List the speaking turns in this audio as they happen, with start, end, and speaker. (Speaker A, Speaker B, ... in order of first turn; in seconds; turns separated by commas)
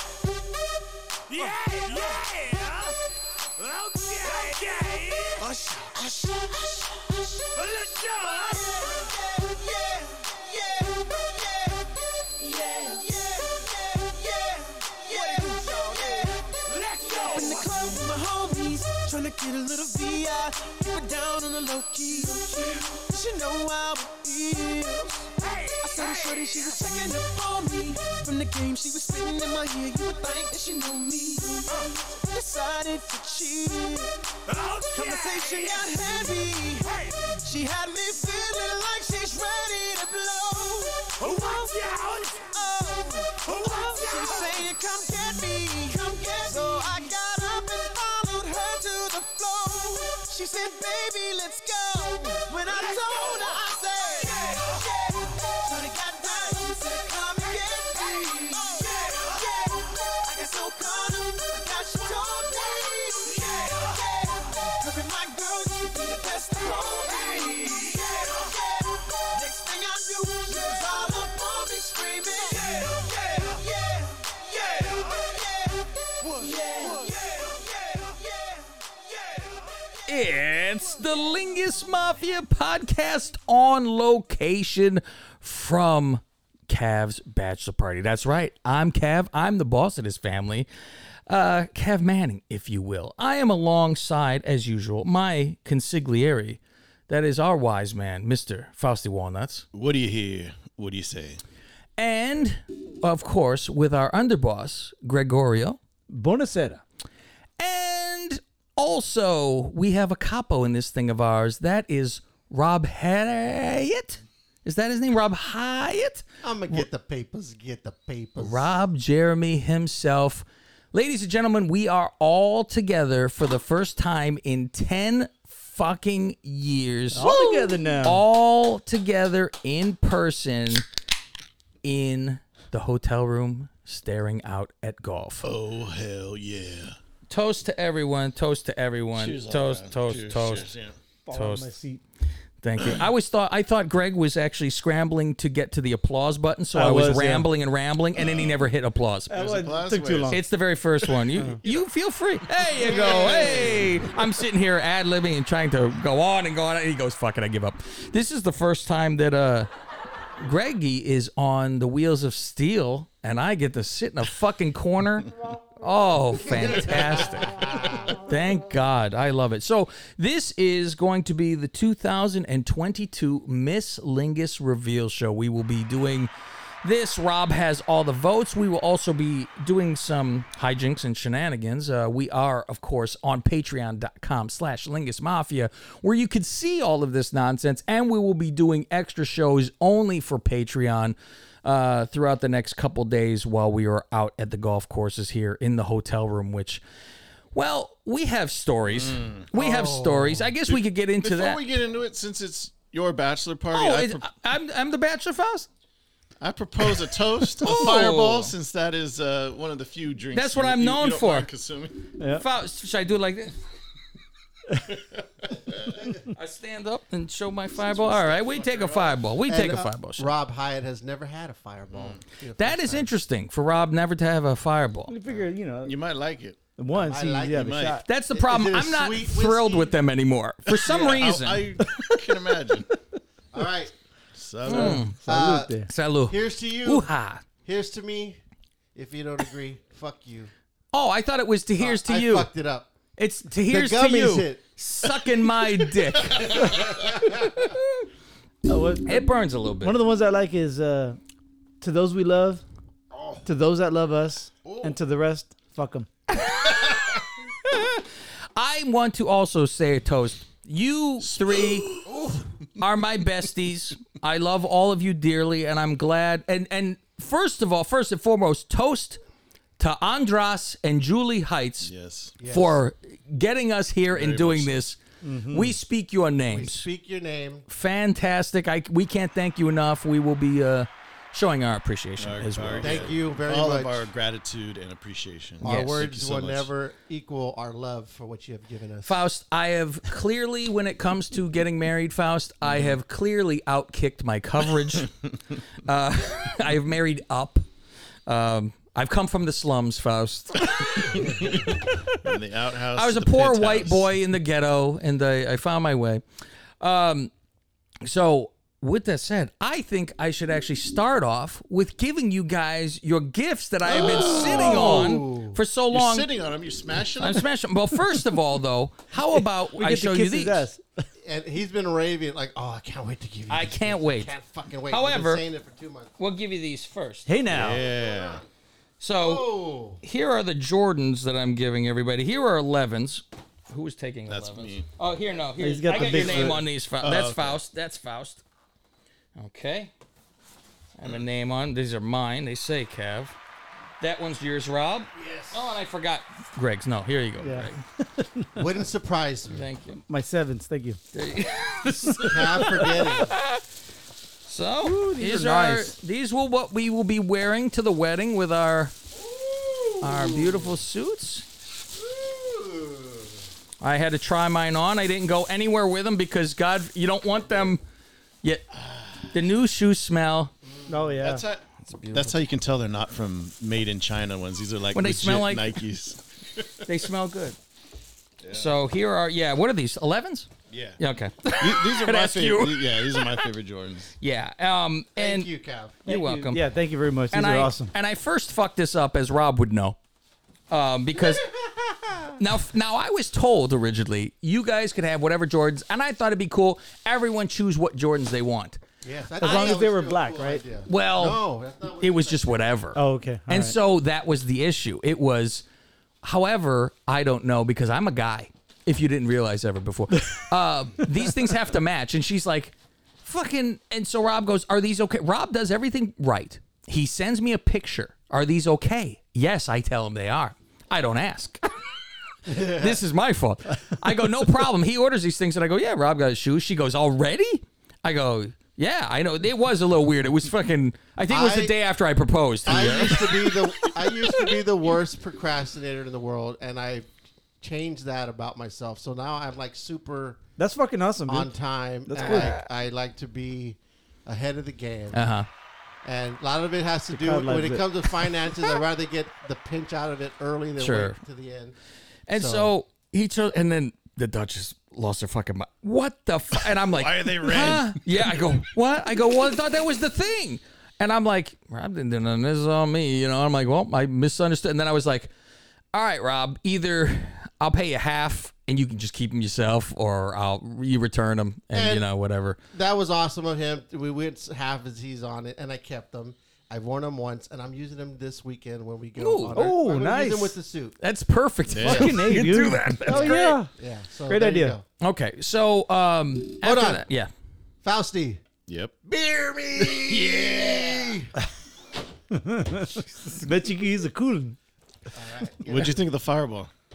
Speaker A: 1.5-2.3, Speaker B: 5.4-7.5, Speaker B: 8.2-79.4, Speaker A: 16.8-17.6, Speaker A: 34.6-35.6, Speaker A: 41.2-42.4, Speaker A: 43.5-44.6, Speaker C: 80.1-90.7, Speaker C: 91.3-99.7, Speaker D: 99.7-101.4, Speaker C: 102.0-105.8, Speaker E: 106.1-106.8, Speaker C: 107.6-116.8, Speaker F: 116.4-118.7, Speaker C: 118.4-130.8, Speaker E: 127.1-128.2, Speaker C: 131.8-135.4, Speaker D: 135.4-136.9, Speaker C: 137.3-140.7, Speaker D: 139.1-140.9, Speaker E: 141.2-142.0, Speaker C: 141.3-141.7, Speaker C: 142.6-149.3, Speaker E: 146.7-147.5, Speaker D: 148.2-148.6, Speaker E: 149.3-150.4, Speaker D: 149.3-150.4, Speaker C: 150.3-159.7, Speaker D: 151.1-151.8, Speaker F: 152.8-153.9, Speaker D: 152.9-153.6, Speaker C: 160.4-176.3, Speaker F: 166.5-168.2, Speaker C: 176.8-196.8, Speaker C: 197.5-201.6, Speaker D: 198.9-199.5, Speaker F: 199.5-200.5, Speaker D: 200.7-204.3, Speaker C: 203.7-205.7, Speaker D: 206.4-212.0, Speaker C: 207.6-208.5, Speaker C: 210.3-211.5, Speaker E: 212.2-212.4, Speaker C: 212.3-213.6, Speaker C: 216.3-220.3, Speaker D: 217.9-219.1, Speaker F: 219.4-223.1, Speaker D: 221.9-222.2, Speaker C: 222.6-225.1, Speaker E: 225.1-225.9, Speaker D: 225.8-226.6, Speaker E: 226.8-228.0, Speaker F: 226.9-227.7, Speaker D: 227.5-228.0, Speaker C: 228.0-231.7, Speaker F: 228.3-229.9, Speaker D: 230.7-232.9, Speaker F: 233.5-233.9, Speaker D: 234.3-235.1, Speaker C: 234.6-235.2, Speaker E: 234.7-235.9, Speaker F: 235.2-235.7, Speaker C: 235.9-237.4, Speaker F: 236.3-237.1, Speaker F: 237.6-238.4, Speaker F: 238.9-240.5, Speaker C: 240.9-242.5, Speaker F: 241.8-242.9, Speaker C: 243.2-246.6, Speaker F: 243.6-244.6, Speaker F: 246.4-247.7, Speaker E: 248.7-249.3, Speaker C: 249.0-250.0, Speaker E: 249.8-251.2, Speaker E: 251.8-252.6, Speaker E: 253.4-256.1, Speaker D: 254.7-254.9, Speaker C: 256.4-257.0, Speaker C: 257.7-258.0, Speaker C: 258.6-262.0, Speaker D: 261.2-262.4, Speaker F: 262.1-262.4, Speaker C: 262.8-269.2, Speaker C: 269.8-271.9, Speaker D: 271.8-272.4, Speaker F: 272.4-272.8, Speaker C: 272.4-275.0, Speaker D: 274.1-274.9, Speaker E: 275.2-275.8, Speaker C: 275.5-276.9, Speaker F: 276.5-277.6, Speaker C: 277.7-283.1, Speaker D: 282.2-286.7, Speaker F: 282.8-284.1, Speaker F: 285.6-289.2, Speaker C: 285.6-286.0, Speaker C: 289.0-295.1, Speaker D: 292.6-293.0, Speaker C: 295.9-297.6, Speaker C: 298.3-301.4, Speaker D: 300.9-304.1, Speaker C: 302.9-306.2, Speaker C: 306.8-307.3, Speaker C: 308.0-316.3, Speaker F: 313.9-315.6, Speaker D: 313.9-315.0, Speaker D: 315.9-317.5, Speaker C: 317.2-320.7, Speaker E: 319.4-321.0, Speaker F: 321.2-326.1, Speaker C: 323.5-324.3, Speaker C: 324.9-325.4, Speaker C: 326.2-327.3, Speaker E: 327.3-327.9, Speaker D: 327.5-328.4, Speaker F: 327.7-328.4, Speaker C: 329.0-329.5, Speaker F: 329.1-330.0, Speaker C: 330.0-338.4, Speaker D: 334.3-334.9, Speaker E: 335.6-336.6, Speaker D: 335.9-337.6, Speaker C: 339.4-339.9, Speaker C: 341.0-343.4, Speaker C: 344.0-347.8, Speaker F: 345.2-345.5, Speaker E: 347.4-348.6, Speaker F: 348.6-349.6, Speaker C: 349.5-350.0, Speaker E: 350.1-351.0, Speaker C: 351.1-353.6, Speaker F: 352.1-353.4, Speaker C: 354.4-358.9, Speaker E: 354.8-355.9, Speaker F: 359.1-360.8, Speaker C: 360.0-361.4, Speaker F: 361.9-363.4, Speaker C: 363.8-367.8, Speaker D: 368.7-369.3, Speaker C: 369.3-370.5, Speaker F: 370.6-371.2, Speaker E: 370.9-371.4, Speaker D: 371.2-376.7, Speaker C: 371.8-372.4, Speaker C: 374.9-375.8, Speaker C: 376.8-377.6, Speaker D: 378.4-378.8, Speaker C: 378.5-383.5, Speaker D: 380.7-381.0, Speaker D: 381.5-384.1, Speaker C: 384.2-385.5, Speaker F: 385.1-386.0, Speaker C: 386.0-386.6, Speaker E: 386.1-387.9, Speaker C: 387.3-390.0, Speaker C: 390.7-391.5, Speaker F: 391.1-392.3, Speaker C: 392.4-398.8, Speaker F: 399.0-402.7, Speaker E: 399.4-400.6, Speaker C: 399.4-399.8, Speaker C: 400.9-401.4, Speaker C: 402.0-405.6, Speaker E: 402.9-403.7, Speaker C: 406.2-421.6, Speaker F: 422.4-423.0, Speaker C: 422.6-433.9, Speaker F: 431.3-431.8, Speaker F: 432.6-437.1, Speaker F: 437.6-440.4, Speaker E: 440.6-441.5, Speaker F: 441.2-445.3, Speaker E: 442.1-442.6, Speaker C: 442.2-442.6, Speaker C: 445.1-445.5, Speaker F: 446.0-451.7, Speaker E: 447.1-447.8, Speaker C: 450.8-451.2, Speaker C: 452.3-465.3, Speaker F: 452.3-452.7, Speaker D: 456.7-458.3, Speaker C: 465.9-472.6, Speaker F: 471.7-472.1, Speaker F: 472.7-481.0, Speaker C: 479.2-479.6, Speaker E: 479.5-480.6, Speaker C: 481.0-483.6, Speaker D: 481.7-482.2, Speaker E: 481.8-483.7, Speaker F: 483.1-484.8, Speaker E: 484.3-484.8, Speaker C: 485.0-487.3, Speaker F: 486.6-487.0, Speaker F: 487.8-488.4, Speaker D: 488.7-489.0, Speaker F: 489.0-491.3, Speaker D: 489.8-491.1, Speaker E: 492.3-494.6, Speaker F: 495.1-496.0, Speaker D: 495.6-496.7